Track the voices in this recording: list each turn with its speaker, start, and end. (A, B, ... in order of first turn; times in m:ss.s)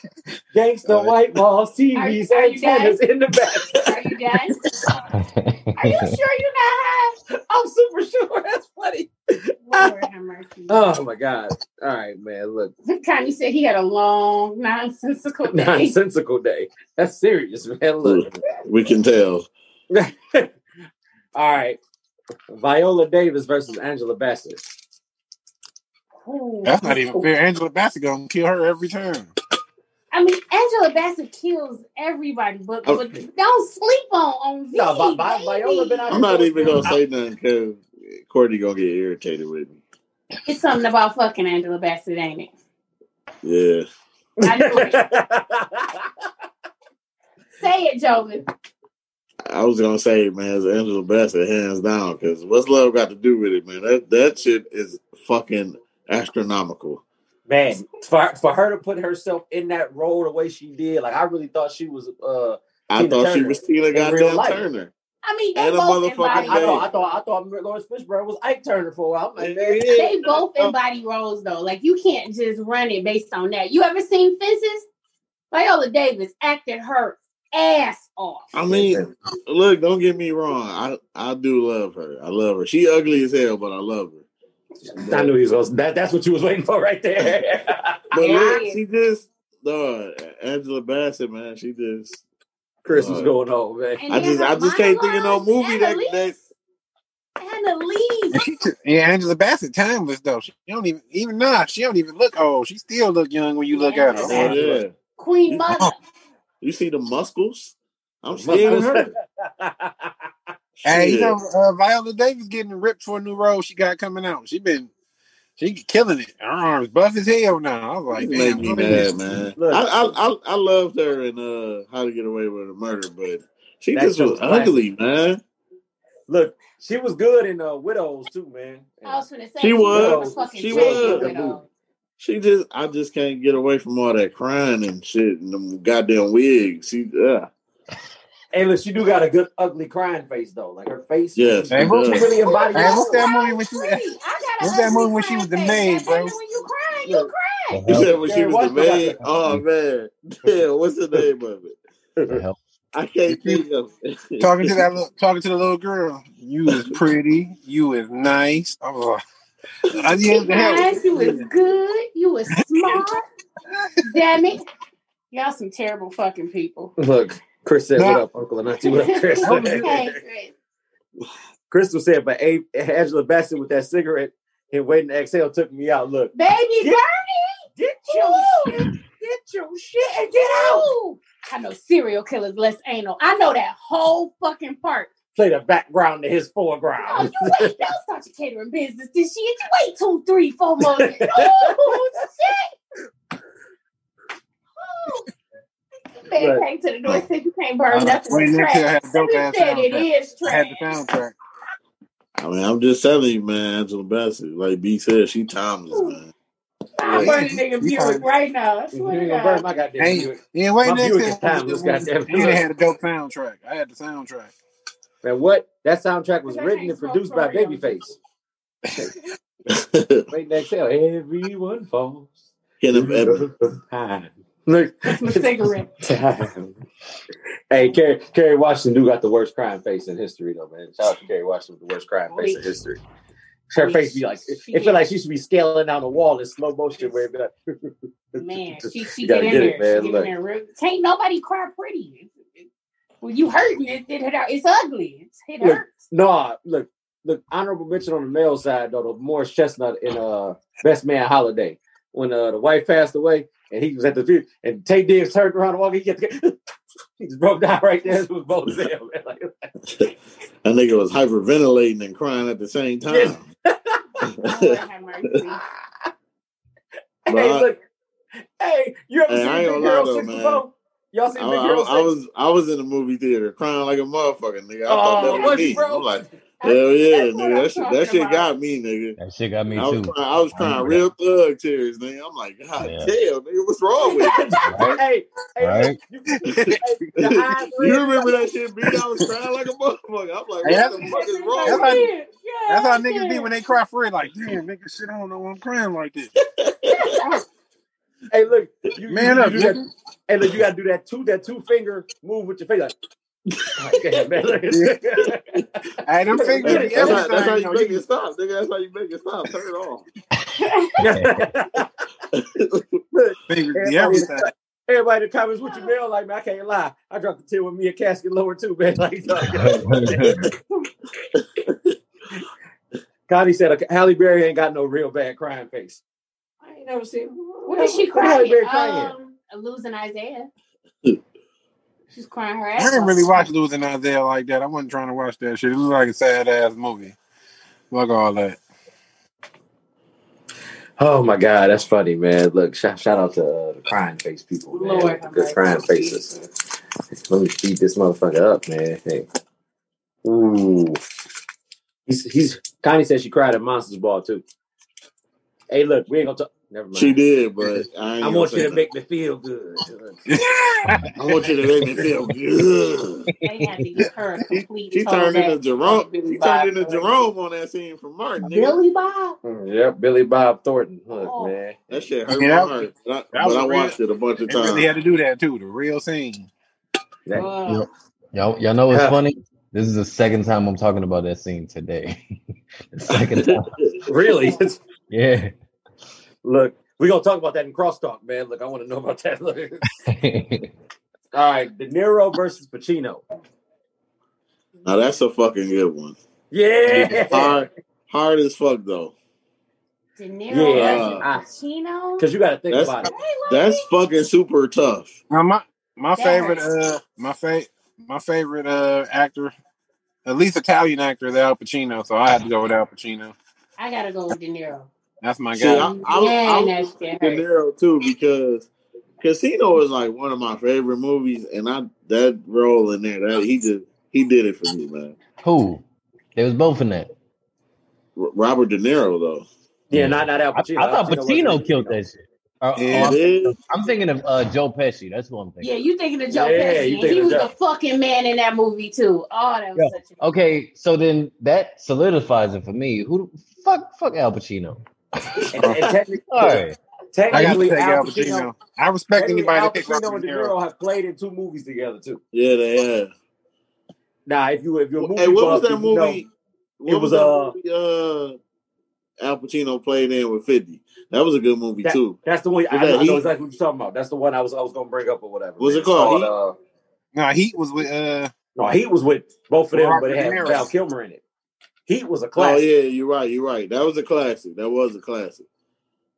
0:00.5-0:04.0 A
0:00.9-0:01.1 B
0:01.9-0:03.0 C
0:03.7-0:04.6 C
0:05.2-0:06.1 D
0:05.8-0:07.2 C
0:07.3-0:10.1 A
0:09.6-0:10.8 C
0:10.7-0:12.7 A
0:12.8-0:15.9 C
0:15.4-0:18.3 A
0:18.0-0:19.5 E
0:19.9-0:20.5 A
0:21.3-0:21.8 A
0:22.5-0:24.7 A
0:26.2-0:27.3 C
0:26.6-0:29.3 B
0:30.1-0:36.9 C
0:34.7-0:36.9 A
0:36.1-0:39.8 E
0:40.4-0:42.5 C
0:43.4-0:43.8 E
0:44.4-0:46.1 A
0:44.4-0:45.0 C
0:47.6-0:48.5 C
0:49.4-0:57.0 E
0:57.5-1:04.6 A
1:02.9-1:04.9 E
1:05.2-1:06.9 C
1:05.5-1:06.8 E
1:06.3-1:09.8 A
1:09.4-1:10.7 E
1:09.9-1:14.9 C
1:15.5-1:18.6 C
1:18.5-1:24.2 E
1:18.7-1:19.1 A
1:24.9-1:28.0 A
1:24.9-1:25.3 E
1:28.1-1:32.2 E
1:28.2-1:28.8 C
1:32.8-1:34.0 A
1:32.9-1:33.3 E
1:34.0-1:36.3 C
1:34.1-1:36.5 E
1:37.4-1:38.4 C
1:38.3-1:44.5 B
1:43.7-1:44.6 C
1:44.1-1:44.8 A
1:44.2-1:45.0 E
1:45.2-1:46.0 C
1:46.6-1:49.1 E
1:48.3-1:50.1 A
1:50.8-1:51.4 E
1:50.8-1:54.9 B
1:55.6-1:59.1 B
1:58.1-2:05.4 E
1:59.6-2:00.2 A
2:03.9-2:04.8 A
2:06.3-2:09.2 A
2:09.0-2:11.6 C
2:09.6-2:11.3 E
2:09.9-2:11.6 A
2:12.2-2:17.5 E
2:18.5-2:23.3 A
2:21.4-2:22.3 E
2:21.7-2:26.3 B
2:22.4-2:27.9 C
2:27.7-2:28.2 D
2:27.9-2:31.8 E
2:28.2-2:29.2 A
2:32.2-2:32.4 A
2:32.3-2:32.6 D
2:32.9-2:34.8 E
2:33.3-2:33.6 B
2:34.4-2:39.2 B
2:36.7-2:37.0 E
2:39.9-2:41.5 B
2:39.9-2:40.2 E
2:40.3-2:43.2 C
2:42.5-2:43.1 B
2:44.0-2:44.6 C
2:45.3-2:46.9 C
2:47.0-2:50.2 A
2:48.0-2:48.2 B
2:48.8-2:50.5 C
2:49.4-2:49.9 B
2:51.7-2:57.0 A
2:56.3-2:58.9 C
2:57.8-3:00.9 A
3:00.0-3:05.1 C
3:05.4-3:07.7 A
3:07.0-3:12.7 C
3:10.8-3:12.0 A
3:14.8-3:15.3 C
3:16.2-3:21.0 C
3:16.3-3:16.6 A
3:17.9-3:21.4 B
3:22.4-3:26.3 E
3:25.9-3:26.2 C
3:27.0-3:29.7 C
3:27.0-3:27.3 A
3:27.1-3:28.2 B
3:28.9-3:32.6 A
3:30.0-3:34.5 B
3:35.2-3:38.2 A
3:36.5-3:38.1 C
3:39.7-3:40.2 E
3:40.3-3:42.4 A
3:42.8-3:43.4 E
3:42.9-3:46.8 A
3:45.1-3:46.0 C
3:47.7-3:53.0 A
3:52.3-3:52.6 C
3:53.7-4:00.3 A
3:53.8-3:55.0 C
3:58.3-4:02.6 C
4:03.2-4:06.0 C
4:05.6-4:16.6 A
4:17.2-4:19.5 A
4:20.6-4:23.4 E
4:23.1-4:24.0 A
4:24.3-4:24.8 E
4:24.4-4:25.6 C
4:27.2-4:27.8 A
4:27.3-4:27.7 E
4:28.6-4:32.1 A
4:29.3-4:30.6 E
4:31.3-4:39.2 E
4:34.9-4:36.3 A
4:35.2-4:35.8 C
4:36.6-4:38.5 C
4:39.2-4:41.0 D
4:39.7-4:44.3 E
4:42.8-4:43.1 D
4:44.0-4:48.3 A
4:44.1-4:44.6 C
4:44.6-4:45.0 D
4:45.6-4:46.0 D
4:46.5-4:46.8 B
4:46.5-4:52.1 E
4:50.6-4:50.9 B
4:50.6-4:53.5 C
4:51.6-4:52.1 B
4:52.7-4:56.3 B
4:56.8-4:57.3 E
4:57.0-4:57.4 C
4:58.3-5:02.9 A
4:59.1-4:59.9 B
5:03.8-5:05.8 A
5:04.7-5:05.0 B
5:06.0-5:08.0 B
5:06.3-5:07.5 A
5:06.6-5:10.0 E
5:10.6-5:11.1 C
5:11.0-5:11.9 A
5:11.1-5:11.4 D
5:12.3-5:12.8 E
5:13.1-5:20.3 A
5:13.5-5:14.5 B
5:19.5-5:20.5 D
5:21.4-5:21.7 E
5:23.3-5:26.0 A
5:26.6-5:29.1 A
5:27.6-5:30.5 C
5:32.1-5:33.5 C
5:32.8-5:37.2 B
5:37.9-5:38.6 B
5:41.0-5:46.3 A
5:44.7-5:46.5 C
5:47.3-5:49.3 A
5:50.2-5:51.0 A
5:52.1-5:54.4 A
5:55.7-5:57.2 A
5:56.9-5:58.8 E
5:58.2-6:00.2 A
6:00.3-6:01.1 B
6:01.1-6:03.3 E
6:03.4-6:07.2 C
6:04.6-6:08.8 E
6:08.4-6:09.4 C
6:09.4-6:11.8 A
6:11.1-6:11.6 C
6:11.9-6:14.9 E
6:12.3-6:12.8 B
6:13.3-6:16.5 B
6:17.3-6:17.9 C
6:17.7-6:22.2 D
6:18.9-6:19.2 A
6:23.0-6:23.7 D
6:23.4-6:24.0 E
6:24.0-6:24.8 A
6:25.1-6:25.5 D
6:26.4-6:29.8 A
6:30.1-6:30.7 D
6:31.3-6:33.2 A
6:34.8-6:36.2 E
6:36.5-6:37.6 A
6:36.9-6:39.1 E
6:40.2-6:42.2 C
6:40.5-6:41.4 A
6:40.7-6:41.2 E
6:42.2-6:43.1 A
6:42.7-6:45.2 E
6:43.0-6:43.9 C
6:45.3-6:49.5 B
6:46.2-6:46.6 C
6:50.2-6:53.4 B
6:53.8-6:54.9 C
6:55.2-6:56.0 B
6:55.5-6:58.7 E
6:55.7-6:57.4 C
6:59.2-7:05.2 E
7:05.4-7:05.8 D
7:06.4-7:07.1 D
7:08.2-7:09.4 E
7:09.9-7:12.0 A
7:09.9-7:15.7 D
7:12.8-7:13.2 B
7:12.9-7:13.6 E
7:15.6-7:20.2 C
7:16.3-7:17.5 A
7:19.8-7:25.4 D
7:25.5-7:28.5 A
7:26.3-7:26.8 D
7:27.3-7:30.5 B
7:29.1-7:32.2 A
7:32.3-7:33.1 E
7:34.2-7:36.2 A
7:35.0-7:36.3 E
7:36.8-7:38.4 E
7:36.8-7:37.5 A
7:39.2-7:42.2 E
7:41.8-7:46.6 A
7:42.7-7:43.3 E
7:45.6-7:46.3 E
7:47.1-7:48.3 B
7:48.6-7:51.2 A
7:49.7-7:50.7 B
7:51.9-7:52.6 A
7:52.4-7:55.4 E